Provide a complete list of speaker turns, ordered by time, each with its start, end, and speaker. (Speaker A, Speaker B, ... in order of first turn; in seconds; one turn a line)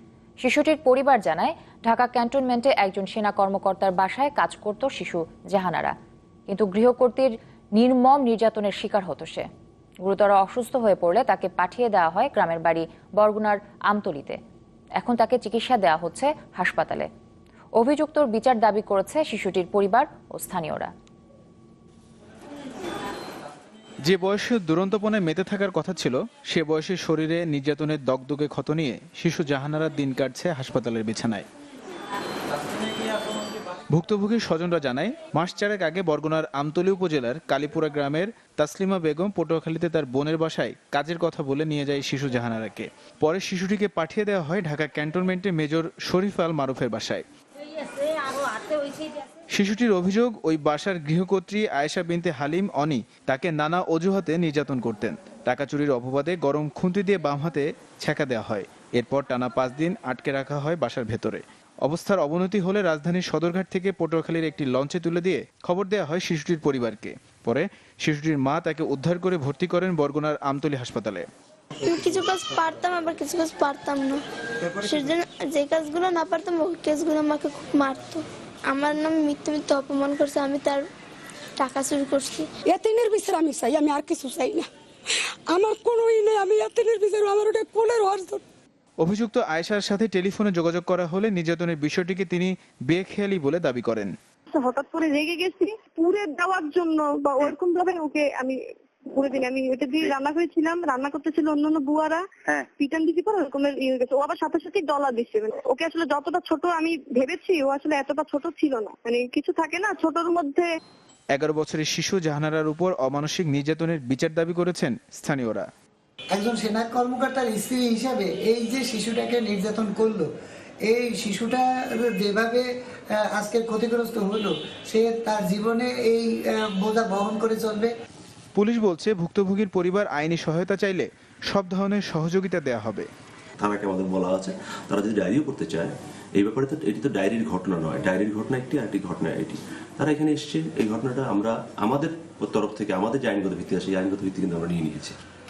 Speaker A: 0.4-5.9
Speaker A: 6.5-9.5
Speaker A: 10.1-14.4
Speaker A: 15.0-17.1
Speaker A: 17.8-20.9
Speaker B: 24.0-31.4
Speaker B: 33.9-47.2
Speaker B: 49.5-71.2
Speaker C: 71.8-80.8
Speaker C: 81.6-82.5
Speaker D: 82.7-84.7
Speaker D: 85.5-88.4
Speaker B: 89.0-94.1
Speaker E: 94.5-98.6
Speaker E: 99.1-110.7
Speaker B: 111.3-115.7
Speaker F: 116.3-120.3
Speaker F: 120.8-127.9
Speaker B: 128.5-133.1
Speaker G: 133.6-145.2